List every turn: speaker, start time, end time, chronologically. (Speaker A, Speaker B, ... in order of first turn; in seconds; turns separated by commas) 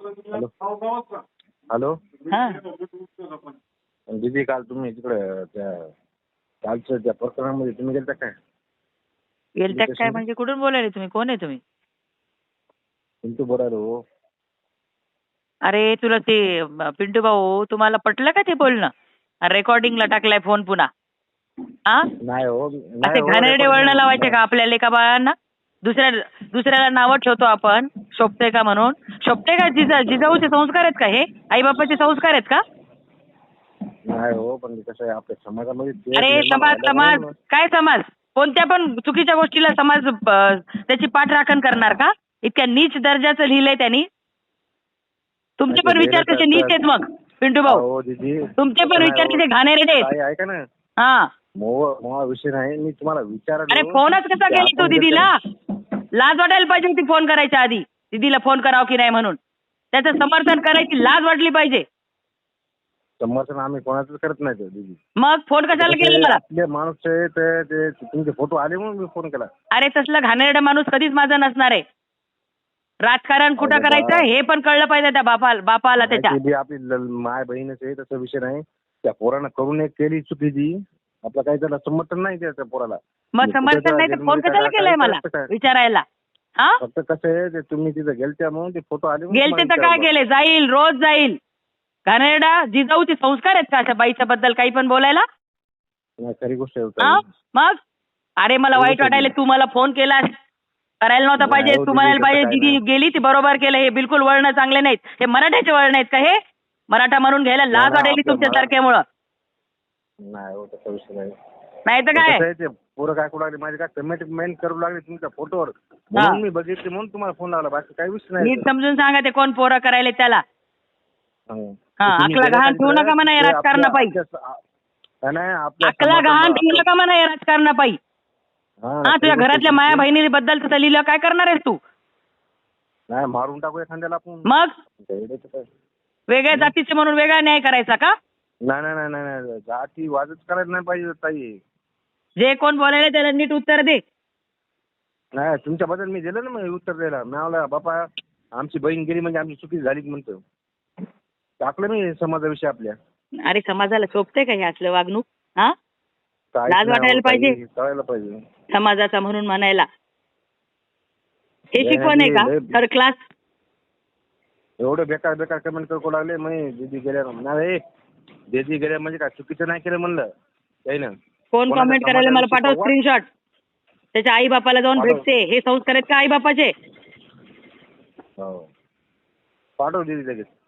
Speaker A: 2.3-2.6, Speaker B: 4.2-5.9, Speaker B: 6.7-8.3, Speaker A: 9.6-11.6, Speaker B: 9.7-10.2, Speaker B: 13.2-13.9, Speaker A: 15.7-18.9, Speaker A: 19.5-20.9, Speaker B: 22.2-24.4, Speaker A: 23.0-32.6, Speaker B: 34.1-37.3, Speaker A: 36.2-44.1, Speaker A: 45.6-47.8, Speaker B: 45.7-46.8, Speaker B: 47.7-49.5, Speaker A: 48.6-50.1, Speaker B: 50.0-50.6, Speaker A: 51.0-51.3, Speaker B: 51.6-54.0, Speaker A: 53.7-55.3, Speaker B: 54.5-55.3, Speaker A: 56.2-59.4, Speaker A: 59.9-61.8, Speaker B: 63.2-65.0, Speaker A: 65.2-66.4, Speaker B: 65.8-69.5, Speaker A: 69.7-71.8, Speaker A: 73.1-76.3, Speaker B: 73.6-74.3, Speaker B: 76.0-80.8, Speaker B: 81.3-85.5, Speaker A: 83.3-86.0, Speaker B: 86.8-90.1, Speaker A: 89.3-91.4, Speaker A: 92.1-95.2, Speaker B: 96.2-97.2, Speaker A: 97.0-97.8, Speaker A: 98.4-100.3, Speaker B: 98.8-99.3, Speaker A: 101.0-106.4, Speaker B: 101.4-102.8, Speaker A: 106.9-109.0, Speaker B: 107.7-108.7, Speaker B: 110.3-111.3, Speaker A: 111.9-112.4, Speaker B: 112.2-118.7, Speaker A: 118.4-120.4, Speaker B: 121.5-124.6, Speaker A: 122.0-124.1, Speaker B: 125.2-126.9, Speaker A: 125.8-128.0, Speaker B: 128.8-130.1, Speaker A: 129.1-131.8, Speaker B: 133.1-134.5, Speaker A: 134.5-134.7, Speaker B: 135.0-135.7, Speaker A: 136.3-138.1, Speaker B: 138.7-141.5, Speaker A: 142.4-144.0, Speaker B: 145.4-148.0, Speaker B: 148.6-150.4, Speaker B: 151.6-152.9, Speaker A: 153.4-155.8, Speaker B: 156.6-158.4, Speaker A: 156.7-157.6, Speaker A: 158.7-159.9, Speaker A: 161.7-163.2, Speaker B: 161.8-162.8, Speaker B: 164.8-167.8, Speaker B: 168.5-170.2, Speaker A: 171.5-173.3, Speaker B: 171.7-172.9, Speaker A: 174.2-176.7, Speaker B: 175.0-175.2, Speaker B: 178.4-178.7, Speaker B: 179.8-180.5